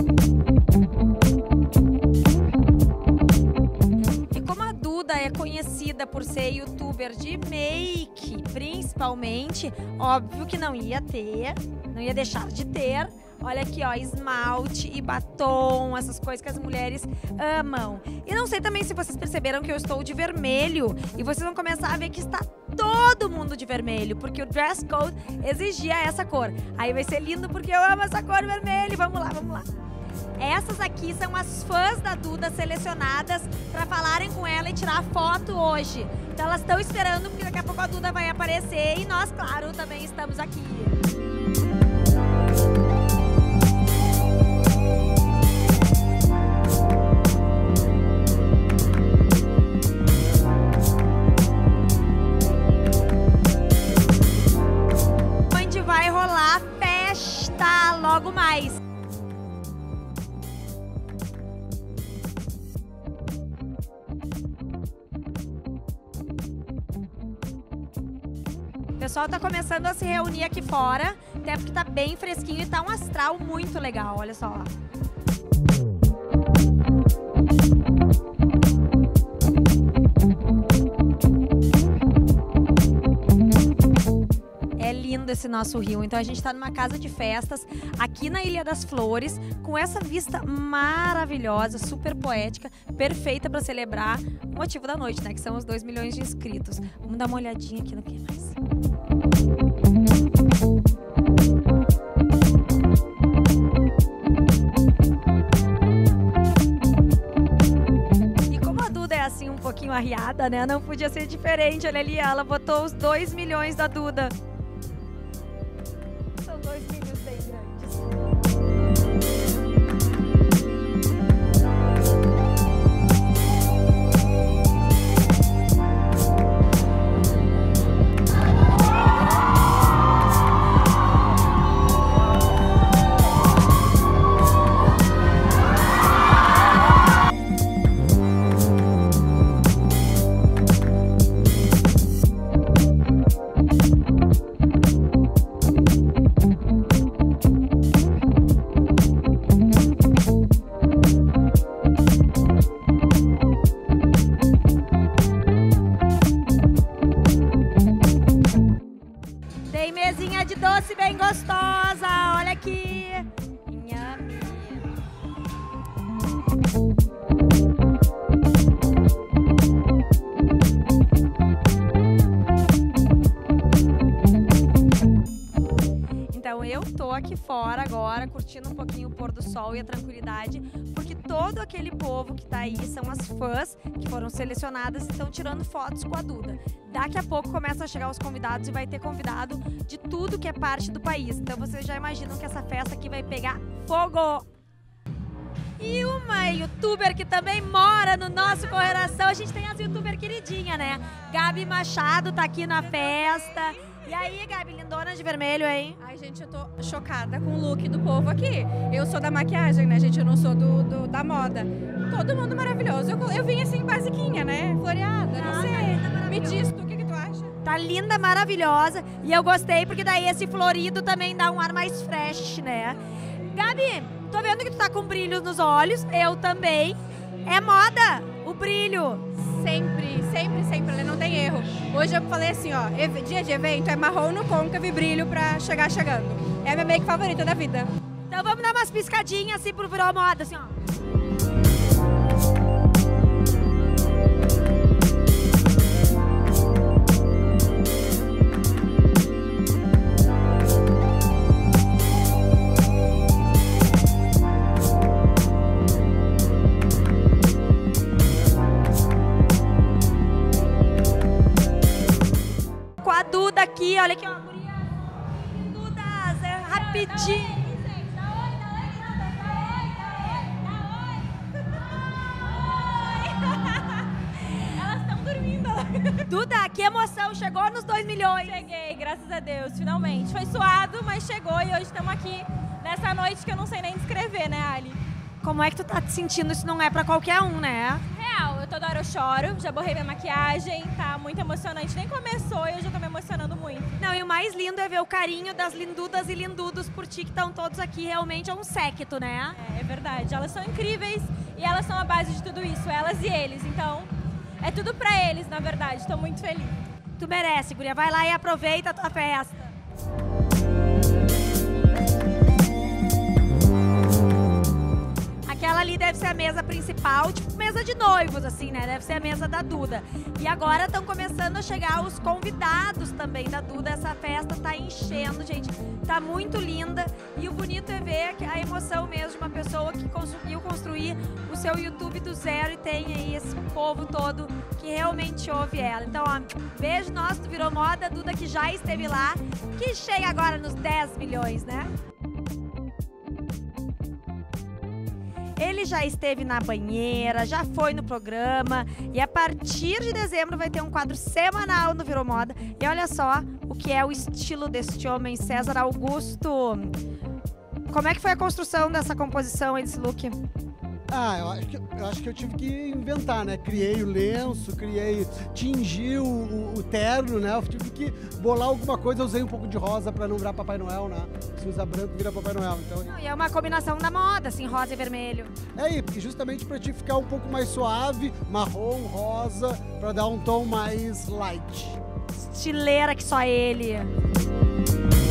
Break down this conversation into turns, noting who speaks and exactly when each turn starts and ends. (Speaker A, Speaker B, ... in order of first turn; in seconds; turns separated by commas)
Speaker A: 4.3-29.7, Speaker A: 30.4-41.0, Speaker A: 55.5-58.8, Speaker A: 69.0-74.7, Speaker A: 84.8-98.6, Speaker A: 108.5-114.3, Speaker A: 116.4-118.1, Speaker A: 159.7-165.0, Speaker A: 176.3-194.5, Speaker A: 195.8-206.0, Speaker B: 206.0-217.5, Speaker A: 215.3-216.7, Speaker A: 217.6-223.0, Speaker A: 223.5-229.3, Speaker B: 229.4-237.9, Speaker A: 238.3-240.8, Speaker A: 263.0-267.6, Speaker C: 266.7-276.3, Speaker A: 276.3-278.6, Speaker C: 278.4-285.0, Speaker A: 285.4-288.0, Speaker C: 288.1-293.9, Speaker A: 294.0-299.6, Speaker C: 299.6-306.8, Speaker A: 307.2-309.7, Speaker A: 315.5-341.9, Speaker A: 345.6-357.0, Speaker A: 357.9-360.4, Speaker D: 361.1-373.1, Speaker A: 373.1-375.5, Speaker D: 375.8-382.0, Speaker A: 382.3-384.1